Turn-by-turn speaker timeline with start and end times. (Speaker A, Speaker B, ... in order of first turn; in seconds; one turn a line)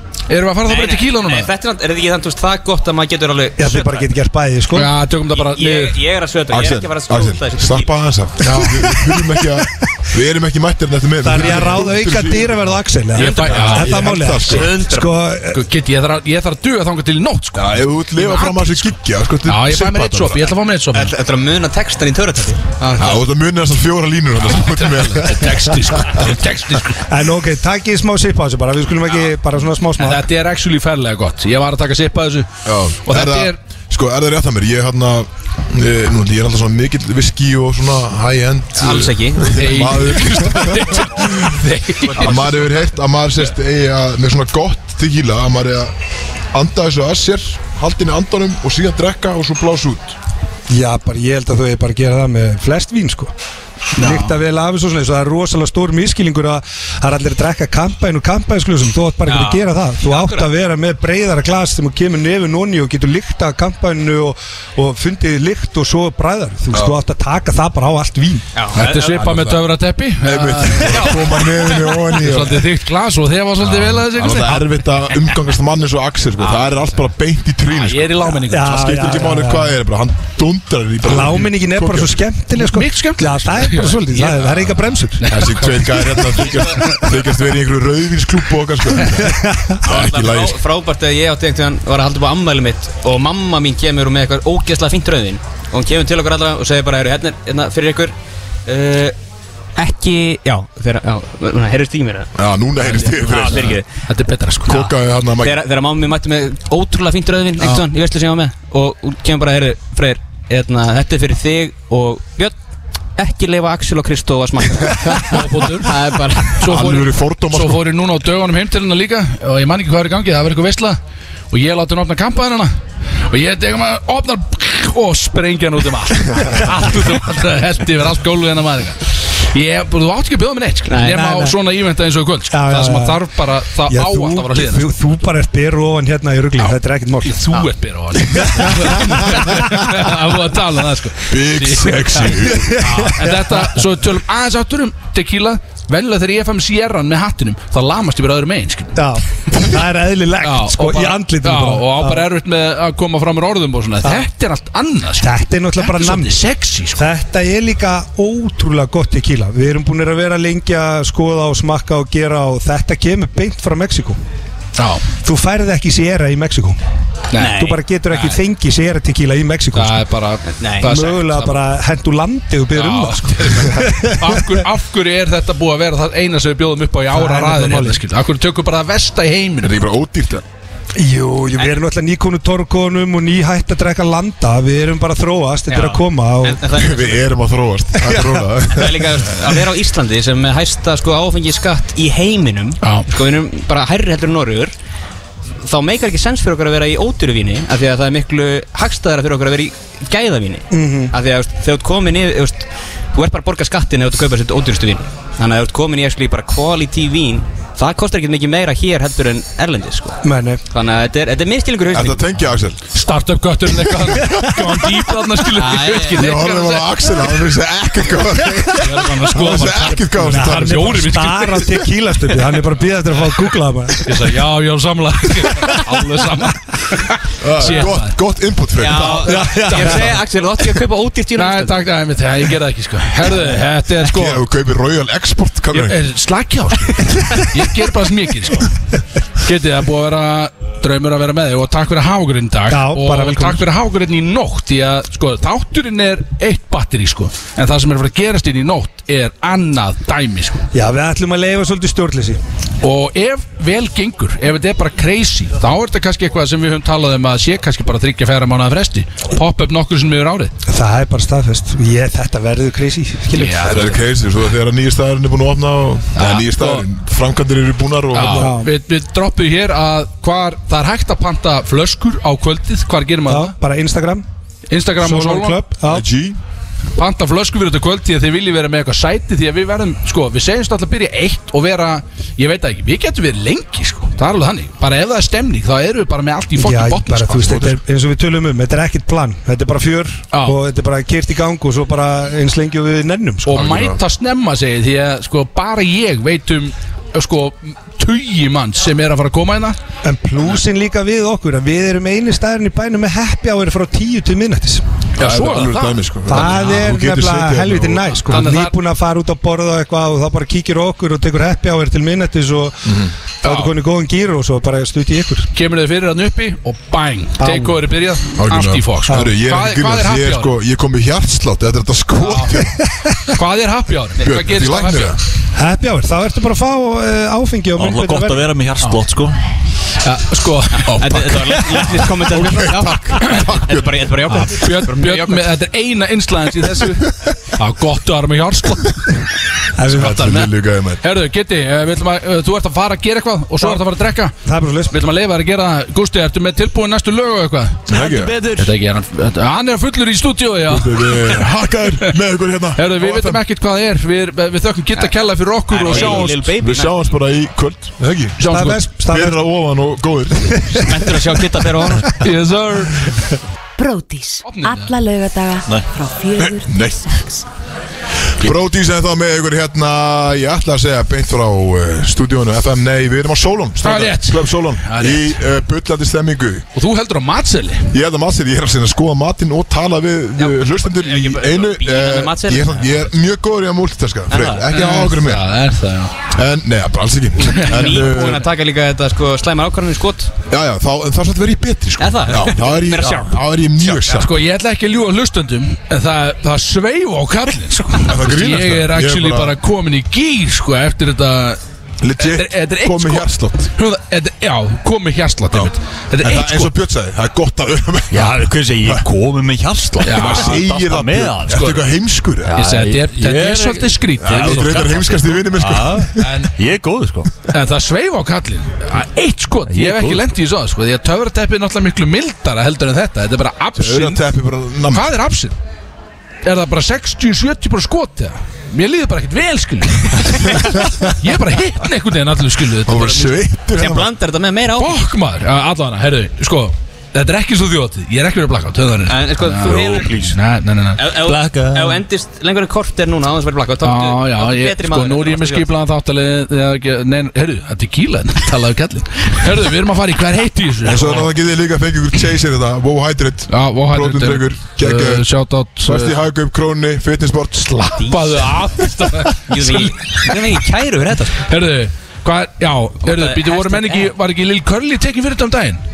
Speaker A: 0.3-1.5
Speaker B: 0.7-4.1
Speaker C: 3.6-4.9
Speaker A: 4.7-6.0
Speaker B: 5.3-7.9
Speaker D: 6.5-14.8
Speaker A: 8.4-9.1
Speaker C: 11.2-15.6
Speaker A: 11.4-11.8
Speaker A: 13.2-14.7
Speaker B: 14.5-15.1
Speaker A: 15.5-21.1
Speaker D: 17.6-20.5
Speaker B: 20.9-23.2
Speaker D: 23.0-26.4
Speaker A: 24.5-27.0
Speaker C: 27.1-30.3
Speaker A: 30.0-32.5
Speaker D: 32.6-41.5
Speaker A: 33.0-33.6
Speaker B: 38.8-39.6
Speaker A: 39.4-42.4
Speaker D: 42.1-45.9
Speaker D: 46.5-50.2
Speaker C: 50.7-53.3
Speaker A: 54.0-54.4
Speaker C: 54.0-68.5
Speaker B: 59.3-60.5
Speaker D: 66.7-67.0
Speaker B: 68.5-69.2
Speaker A: 68.7-74.7
Speaker D: 68.8-69.6
Speaker D: 70.2-72.7
Speaker D: 73.6-82.3
Speaker B: 76.4-76.7
Speaker A: 77.7-79.2
Speaker C: 78.4-79.7
Speaker C: 81.0-85.2
Speaker A: 82.5-87.1
Speaker D: 85.3-90.6
Speaker C: 89.2-89.8
Speaker B: 89.9-98.1
Speaker B: 98.7-99.2
Speaker B: 99.8-102.3
Speaker D: 102.4-103.8
Speaker B: 102.9-103.8
Speaker A: 103.0-104.9
Speaker D: 104.7-105.6
Speaker B: 105.4-112.6
Speaker B: 113.2-116.7
Speaker A: 115.3-116.0
Speaker A: 116.6-121.0
Speaker D: 116.6-117.9
Speaker A: 121.5-122.7
Speaker A: 123.3-134.9
Speaker B: 130.9-131.2
Speaker C: 131.0-131.6
Speaker C: 132.5-133.2
Speaker C: 133.9-137.5
Speaker A: 136.6-142.4
Speaker C: 138.4-139.4
Speaker D: 141.3-143.1
Speaker C: 142.5-143.9
Speaker B: 142.9-143.2
Speaker A: 143.2-149.0
Speaker C: 149.0-152.2
Speaker A: 150.4-157.1
Speaker C: 155.2-156.4
Speaker C: 157.0-164.2
Speaker A: 164.8-165.1
Speaker C: 165.2-166.8
Speaker A: 167.3-168.4
Speaker B: 167.3-167.8
Speaker C: 167.4-170.0
Speaker A: 169.7-171.6
Speaker B: 170.5-170.9
Speaker C: 170.8-174.5
Speaker A: 172.7-179.8
Speaker C: 177.1-178.0
Speaker D: 179.6-180.4
Speaker C: 181.0-186.6
Speaker B: 181.6-181.8
Speaker B: 185.7-187.3
Speaker D: 186.7-189.3
Speaker B: 188.0-194.7
Speaker A: 192.8-193.1
Speaker B: 195.6-210.2
Speaker C: 200.7-201.1
Speaker C: 210.2-210.6
Speaker B: 210.7-212.2
Speaker D: 211.9-212.8
Speaker A: 212.9-217.2
Speaker C: 214.2-214.5
Speaker B: 215.6-216.2
Speaker D: 216.1-221.2
Speaker A: 218.8-221.7
Speaker C: 219.4-224.3
Speaker A: 224.1-228.2
Speaker D: 227.4-229.5
Speaker B: 228.8-231.8
Speaker A: 229.1-230.2
Speaker C: 229.8-230.1
Speaker A: 231.4-234.4
Speaker D: 234.0-236.0
Speaker A: 235.7-238.7
Speaker A: 239.4-250.6
Speaker C: 242.7-243.6
Speaker C: 250.7-252.4
Speaker A: 252.8-260.5
Speaker C: 260.7-264.0
Speaker A: 263.3-264.0
Speaker D: 263.6-268.6
Speaker A: 266.1-266.9
Speaker A: 268.1-273.5
Speaker C: 268.3-268.7
Speaker C: 273.3-274.2
Speaker A: 274.7-275.6
Speaker C: 275.0-276.1
Speaker D: 275.9-276.4
Speaker A: 277.0-287.6
Speaker C: 286.6-293.8
Speaker D: 287.3-287.8
Speaker A: 290.3-290.6
Speaker A: 293.5-299.8
Speaker D: 293.5-294.0
Speaker C: 300.0-304.9
Speaker A: 305.2-306.9
Speaker D: 305.2-308.5
Speaker C: 306.3-315.5
Speaker A: 308.3-308.8
Speaker D: 312.9-313.1
Speaker A: 313.4-313.7
Speaker A: 315.5-320.5
Speaker C: 317.4-317.9
Speaker D: 318.4-322.8
Speaker A: 322.2-322.6
Speaker A: 323.3-325.2
Speaker D: 324.2-325.2
Speaker C: 325.6-328.5
Speaker E: 327.8-329.4
Speaker A: 330.0-331.1
Speaker D: 330.9-334.4
Speaker B: 330.9-335.5
Speaker A: 334.5-339.1
Speaker D: 337.1-337.4
Speaker C: 339.8-340.2
Speaker D: 339.9-341.0
Speaker A: 339.9-344.4
Speaker C: 344.4-345.0
Speaker A: 344.9-347.9
Speaker D: 347.9-348.4
Speaker A: 348.6-351.5
Speaker D: 350.7-353.4
Speaker A: 352.8-356.5
Speaker B: 355.7-357.1
Speaker D: 355.9-358.4
Speaker A: 358.4-358.8
Speaker C: 358.4-359.4
Speaker D: 359.1-361.2
Speaker B: 360.9-362.2
Speaker A: 362.2-363.2
Speaker F: 363.8-367.4
Speaker A: 364.4-364.9
Speaker D: 366.4-367.2
Speaker D: 368.4-376.7
Speaker A: 373.8-375.4
Speaker A: 376.8-377.9
Speaker D: 377.9-385.5
Speaker B: 380.4-383.1
Speaker B: 384.3-384.7
Speaker A: 384.7-386.1
Speaker D: 386.3-388.5
Speaker A: 387.5-388.0
Speaker B: 387.6-390.3
Speaker D: 390.5-394.3
Speaker B: 392.0-394.2
Speaker A: 394.1-401.6
Speaker D: 398.1-399.6
Speaker D: 402.0-403.7
Speaker A: 402.2-406.8
Speaker D: 405.5-409.1
Speaker E: 408.1-411.8
Speaker D: 410.0-412.6
Speaker A: 410.0-410.6
Speaker A: 411.5-411.8
Speaker E: 412.4-417.3
Speaker A: 412.5-415.4
Speaker D: 414.2-416.3
Speaker A: 416.2-416.5
Speaker A: 417.5-424.2
Speaker E: 419.7-420.3
Speaker D: 423.8-425.1
Speaker A: 424.9-425.6
Speaker A: 426.4-433.3
Speaker D: 430.6-431.0
Speaker D: 432.9-434.1
Speaker B: 433.7-435.0
Speaker A: 434.8-441.1
Speaker B: 439.1-440.3
Speaker E: 439.6-440.4
Speaker B: 441.0-445.7
Speaker E: 441.1-442.1
Speaker A: 443.8-451.3
Speaker D: 450.8-455.3
Speaker A: 453.5-456.2
Speaker D: 455.8-458.0
Speaker B: 458.0-458.4
Speaker A: 458.0-460.4
Speaker B: 459.3-461.4
Speaker A: 461.5-465.8
Speaker B: 463.0-464.1